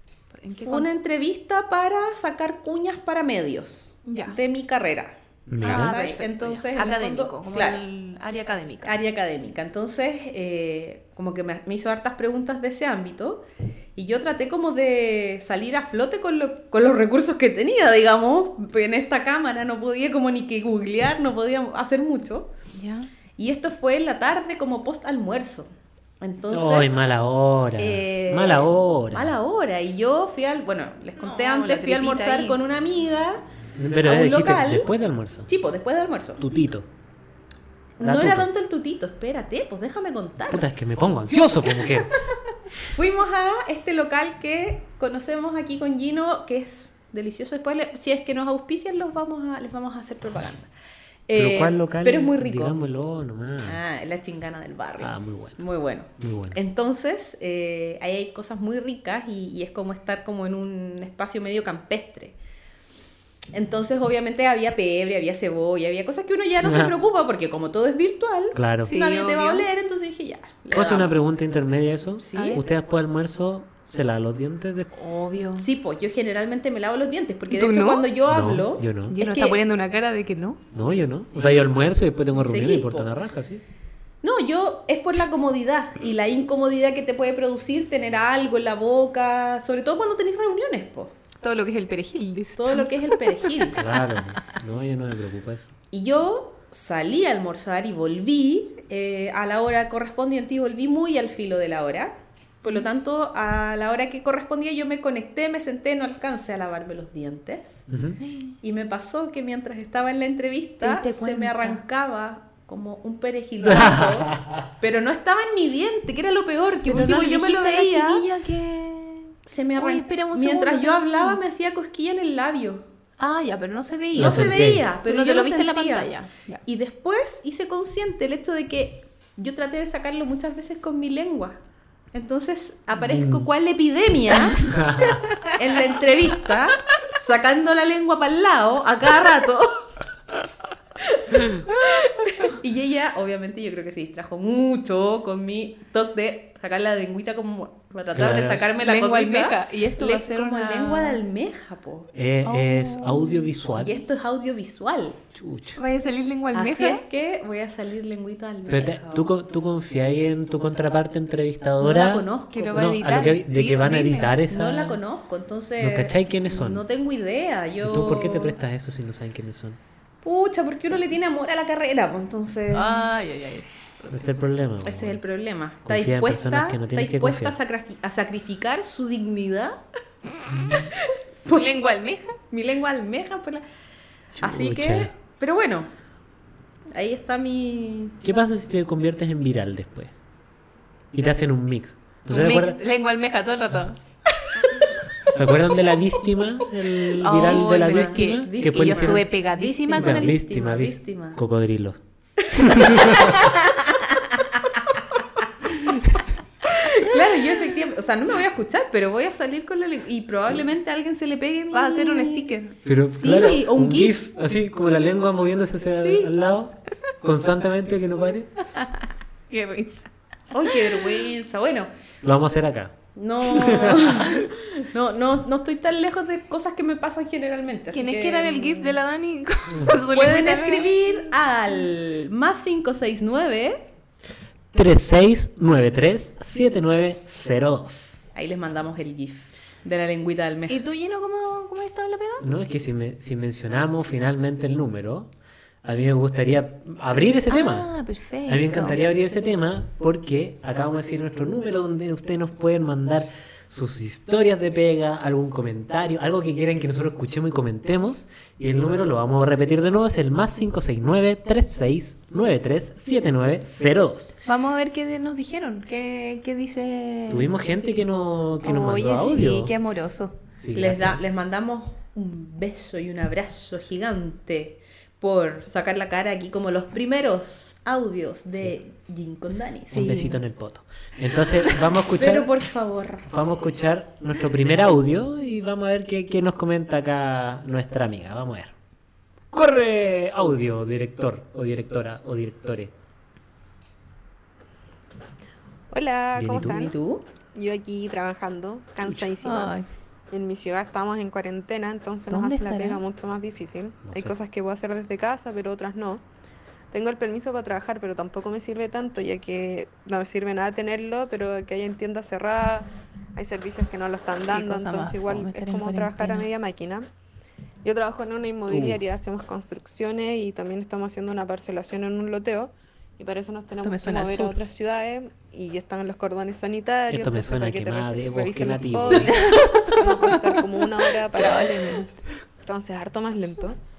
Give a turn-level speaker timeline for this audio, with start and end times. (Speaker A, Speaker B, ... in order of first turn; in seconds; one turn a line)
Speaker A: 0.3-0.9
Speaker B: 0.6-7.8
Speaker A: 4.0-4.4
Speaker C: 5.5-5.9
Speaker A: 5.6-8.9
Speaker B: 8.8-13.4
Speaker B: 13.9-22.5
Speaker A: 22.7-23.1
Speaker B: 23.4-25.7
Speaker B: 26.2-27.1
Speaker C: 26.5-29.4
Speaker B: 27.8-33.4
Speaker A: 31.2-32.6
Speaker C: 33.8-35.5
Speaker B: 34.0-34.9
Speaker B: 35.5-36.4
Speaker C: 36.4-36.9
Speaker B: 38.0-40.7
Speaker C: 38.0-38.5
Speaker C: 40.5-42.1
Speaker B: 41.4-42.0
Speaker B: 42.8-50.7
Speaker B: 51.3-52.8
Speaker C: 51.3-53.8
Speaker B: 53.6-62.4
Speaker C: 55.0-55.6
Speaker C: 56.2-56.6
Speaker B: 63.5-71.2
Speaker C: 66.6-66.9
Speaker C: 68.5-68.9
Speaker A: 68.8-69.6
Speaker C: 70.7-74.9
Speaker B: 72.2-72.6
Speaker A: 72.3-72.6
Speaker A: 74.9-75.7
Speaker B: 75.6-79.6
Speaker A: 77.5-78.1
Speaker C: 78.3-79.2
Speaker A: 79.1-80.6
Speaker C: 80.7-83.6
Speaker B: 82.3-83.1
Speaker B: 84.2-91.1
Speaker A: 91.4-94.2
Speaker B: 92.6-93.8
Speaker C: 93.7-95.7
Speaker B: 95.9-107.8
Speaker C: 107.9-108.2
Speaker A: 108.2-108.6
Speaker B: 108.6-118.2
Speaker A: 110.8-111.8
Speaker C: 113.6-114.7
Speaker A: 116.8-121.4
Speaker B: 119.5-122.8
Speaker A: 123.2-126.6
Speaker C: 124.1-124.9
Speaker B: 124.2-126.1
Speaker B: 126.7-131.6
Speaker B: 132.1-134.7
Speaker C: 133.0-133.5
Speaker C: 134.6-135.2
Speaker A: 135.1-135.6
Speaker B: 135.5-139.8
Speaker B: 141.0-152.1
Speaker C: 148.1-148.6
Speaker A: 148.8-151.2
Speaker C: 152.1-154.0
Speaker A: 152.4-153.5
Speaker B: 153.7-155.2
Speaker C: 155.3-155.8
Speaker A: 155.8-157.0
Speaker B: 156.5-159.3
Speaker C: 158.7-165.0
Speaker B: 161.8-162.9
Speaker A: 162.5-164.4
Speaker B: 164.5-168.6
Speaker C: 165.8-166.8
Speaker C: 167.8-169.8
Speaker B: 170.2-173.1
Speaker A: 172.7-173.9
Speaker C: 174.1-175.2
Speaker B: 174.8-179.8
Speaker C: 175.8-177.6
Speaker C: 180.5-180.8
Speaker B: 180.7-181.9
Speaker A: 181.4-182.3
Speaker B: 182.5-183.6
Speaker C: 184.3-185.1
Speaker B: 184.4-185.9
Speaker B: 186.9-188.2
Speaker C: 188.2-190.1
Speaker C: 191.1-192.8
Speaker A: 192.3-194.0
Speaker C: 195.3-199.2
Speaker A: 197.2-200.3
Speaker B: 197.3-201.4
Speaker C: 199.9-202.0
Speaker C: 202.5-203.4
Speaker B: 202.7-203.5
Speaker B: 206.7-212.5
Speaker A: 211.7-212.8
Speaker C: 212.8-218.5
Speaker B: 213.1-214.2
Speaker B: 215.9-216.3
Speaker A: 218.8-220.1
Speaker B: 220.5-221.9
Speaker A: 220.7-221.0
Speaker C: 222.2-222.9
Speaker B: 223.2-229.0
Speaker C: 223.5-224.5
Speaker A: 227.9-231.3
Speaker B: 230.1-233.9
Speaker C: 234.7-238.2
Speaker B: 238.3-240.8
Speaker A: 240.7-242.5
Speaker C: 242.4-245.3
Speaker C: 245.8-247.9
Speaker A: 247.5-249.0
Speaker C: 248.5-264.4
Speaker A: 264.4-267.5
Speaker C: 267.3-269.7
Speaker A: 268.6-270.4
Speaker C: 270.6-271.2
Speaker B: 270.7-280.4
Speaker C: 279.9-282.5
Speaker B: 282.0-283.3
Speaker C: 283.3-288.7
Speaker C: 289.5-292.9
Speaker D: 295.9-296.9
Speaker C: 296.3-296.9
Speaker B: 296.6-297.2
Speaker D: 297.5-299.8
Speaker A: 299.4-299.9
Speaker D: 300.3-306.2
Speaker A: 302.3-303.0
Speaker C: 304.1-304.3
Speaker D: 306.9-317.1
Speaker A: 314.5-316.5
Speaker D: 317.8-332.0
Speaker C: 318.7-319.0
Speaker A: 323.8-324.6
Speaker C: 327.1-329.4
Speaker A: 329.2-330.6
Speaker A: 331.3-332.2
Speaker D: 332.6-333.8